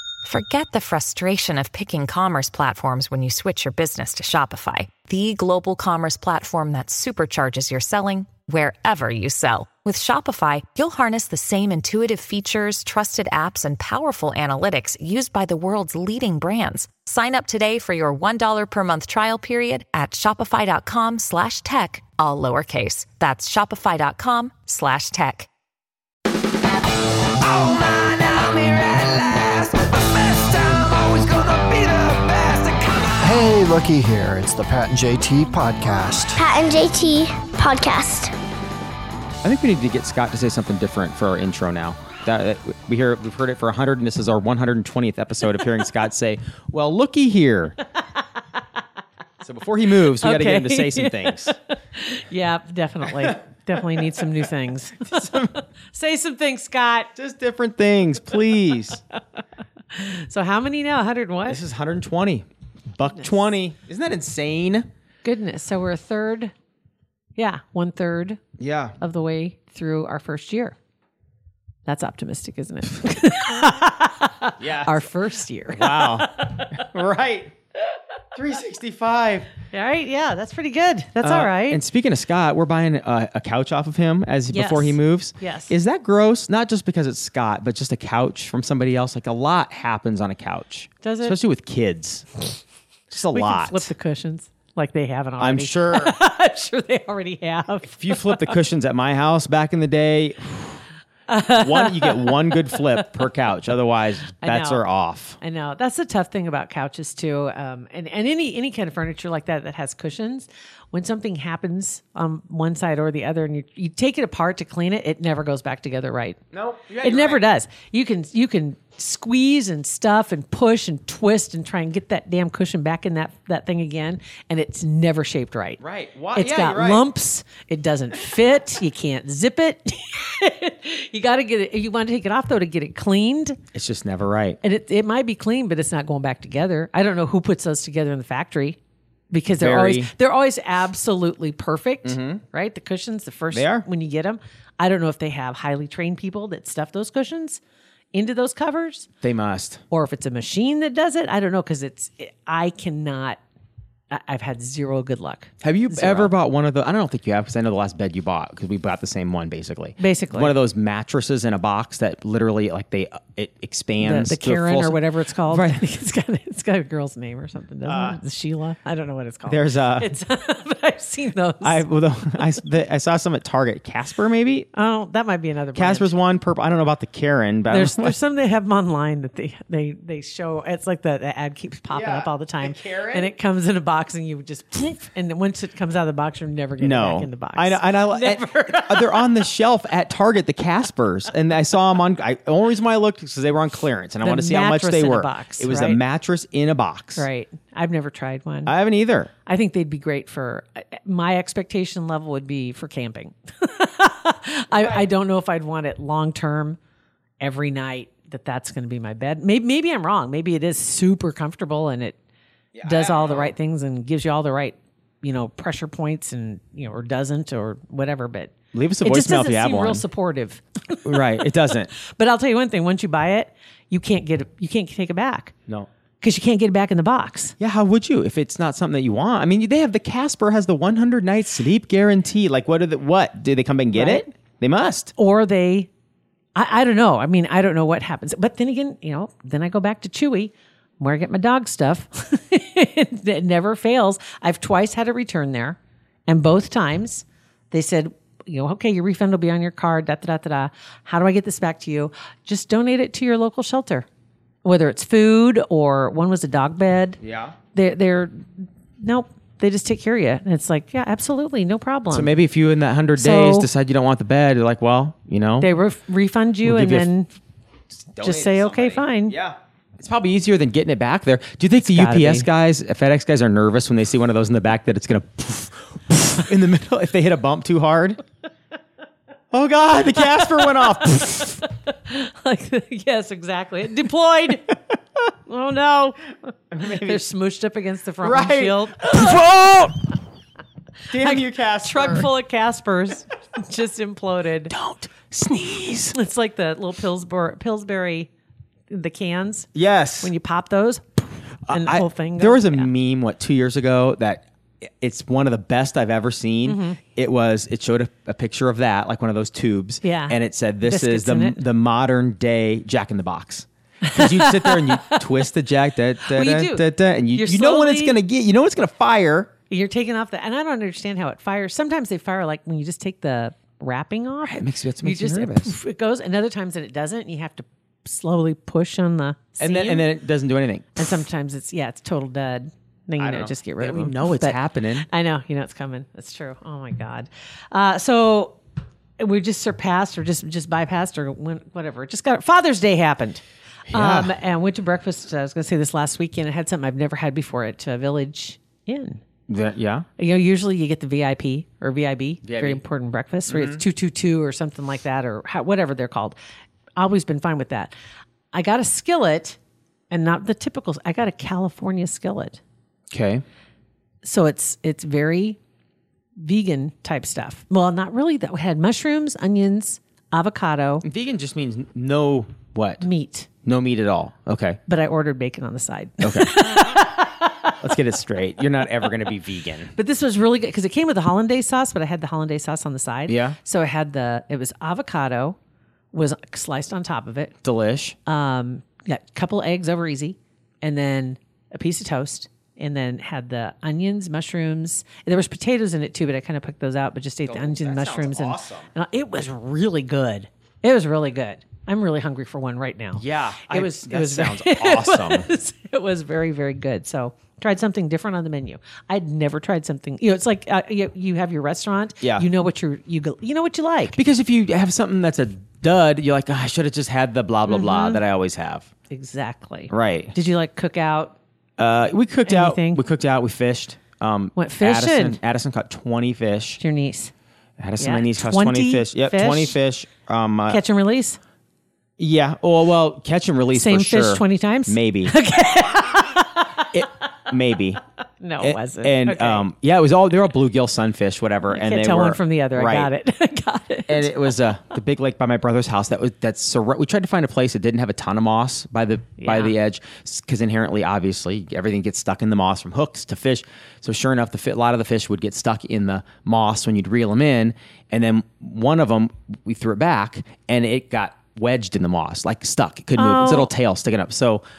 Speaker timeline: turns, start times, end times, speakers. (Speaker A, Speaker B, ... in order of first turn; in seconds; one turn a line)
Speaker A: 0.2-25.5
Speaker B: 27.4-33.2
Speaker C: 33.2-36.4
Speaker D: 36.4-38.3
Speaker E: 39.4-47.8
Speaker E: 49.4-51.5
Speaker F: 50.2-57.1
Speaker E: 53.0-54.4
Speaker E: 55.0-55.6
Speaker E: 57.1-59.0
Speaker F: 59.9-61.6
Speaker E: 61.5-64.9
Speaker F: 65.2-66.5
Speaker F: 67.3-68.4
Speaker E: 68.6-69.0
Speaker F: 69.0-70.8
Speaker F: 71.8-76.7
Speaker E: 74.6-75.1
Speaker E: 75.7-77.5
Speaker E: 78.3-79.5
Speaker F: 79.7-81.8
Speaker E: 81.2-92.3
Speaker F: 84.5-85.7
Speaker F: 91.0-91.4
Speaker E: 93.1-93.9
Speaker F: 93.3-98.5
Speaker E: 95.4-96.2
Speaker E: 97.8-100.8
Speaker F: 101.3-102.8
Speaker E: 101.5-105.4
Speaker F: 104.4-104.8
Speaker F: 105.4-116.4
Speaker E: 116.5-117.4
Speaker F: 117.0-125.8
Speaker E: 125.8-127.0
Speaker F: 126.3-133.6
Speaker E: 133.7-134.6
Speaker F: 134.6-138.8
Speaker F: 139.3-147.6
Speaker E: 139.6-140.1
Speaker E: 142.0-142.4
Speaker E: 143.5-143.8
Speaker F: 148.1-149.1
Speaker E: 149.2-149.8
Speaker F: 149.9-153.4
Speaker F: 154.1-156.3
Speaker E: 155.6-165.8
Speaker F: 160.0-160.5
Speaker F: 164.0-171.8
Speaker E: 167.8-168.2
Speaker E: 169.5-170.1
Speaker E: 171.6-174.7
Speaker F: 174.7-176.1
Speaker E: 175.7-178.1
Speaker F: 177.7-189.3
Speaker E: 181.9-183.3
Speaker E: 186.8-197.3
Speaker F: 194.2-196.0
Speaker F: 197.2-198.7
Speaker E: 198.7-199.3
Speaker F: 199.4-206.8
Speaker E: 204.7-205.1
Speaker F: 207.4-212.2
Speaker E: 212.7-213.5
Speaker F: 212.8-221.4
Speaker E: 218.7-220.0
Speaker E: 221.0-221.9
Speaker F: 221.9-225.5
Speaker F: 226.2-227.6
Speaker E: 227.6-235.1
Speaker F: 233.9-234.2
Speaker F: 235.2-235.9
Speaker F: 236.5-254.1
Speaker F: 254.6-257.2
Speaker E: 257.2-257.6
Speaker F: 257.7-262.3
Speaker E: 262.1-265.7
Speaker F: 263.1-263.7
Speaker F: 265.6-267.3
Speaker E: 266.6-267.1
Speaker E: 268.0-278.2
Speaker F: 268.2-269.4
Speaker F: 271.8-272.5
Speaker E: 279.5-281.6
Speaker F: 280.3-284.8
Speaker F: 285.4-289.4
Speaker E: 286.7-287.2
Speaker E: 288.2-290.1
Speaker E: 291.1-292.3
Speaker F: 291.1-294.7
Speaker E: 294.7-296.1
Speaker F: 296.1-298.3
Speaker F: 298.9-299.7
Speaker E: 299.7-300.3
Speaker F: 300.2-302.9
Speaker E: 301.7-319.5
Speaker F: 306.6-307.0
Speaker F: 310.0-311.6
Speaker F: 314.0-315.2
Speaker F: 316.3-318.2
Speaker F: 319.7-330.1
Speaker E: 324.4-325.7
Speaker E: 329.6-331.2
Speaker F: 330.9-338.6
Speaker E: 333.2-335.1
Speaker F: 339.2-349.2
Speaker E: 343.9-344.3
Speaker E: 349.5-350.1
Speaker F: 350.2-356.4
Speaker E: 352.4-352.8
Speaker E: 353.5-353.8
Speaker F: 357.0-357.9
Speaker F: 358.5-359.6
Speaker F: 360.1-362.6
Speaker E: 363.1-363.4
Speaker F: 364.2-365.6
Speaker F: 366.4-371.0
Speaker E: 371.0-373.0
Speaker F: 373.0-373.5
Speaker E: 373.6-374.8
Speaker F: 374.9-377.7
Speaker E: 376.2-377.1
Speaker E: 377.8-379.9
Speaker F: 379.9-385.6
Speaker E: 383.3-383.6
Speaker F: 386.1-387.5
Speaker E: 387.6-388.2
Speaker F: 388.2-414.2
Speaker E: 397.4-398.9
Speaker E: 403.1-405.5
Speaker E: 412.2-412.5
Speaker E: 414.1-418.9
Speaker F: 417.7-418.2
Speaker F: 419.1-421.4
Speaker E: 419.9-420.3
Speaker E: 421.8-426.8
Speaker F: 422.4-423.0
Speaker F: 424.6-425.4
Speaker F: 426.8-427.3
Speaker E: 427.8-430.8
Speaker F: 428.0-429.7
Speaker F: 430.7-431.4
Speaker E: 432.2-435.3
Speaker F: 433.7-437.0
Speaker E: 436.9-438.0
Speaker F: 438.4-439.7
Speaker E: 438.6-443.1
Speaker F: 441.7-444.5
Speaker E: 444.1-464.6
Speaker F: 449.4-449.7
Speaker F: 463.1-463.7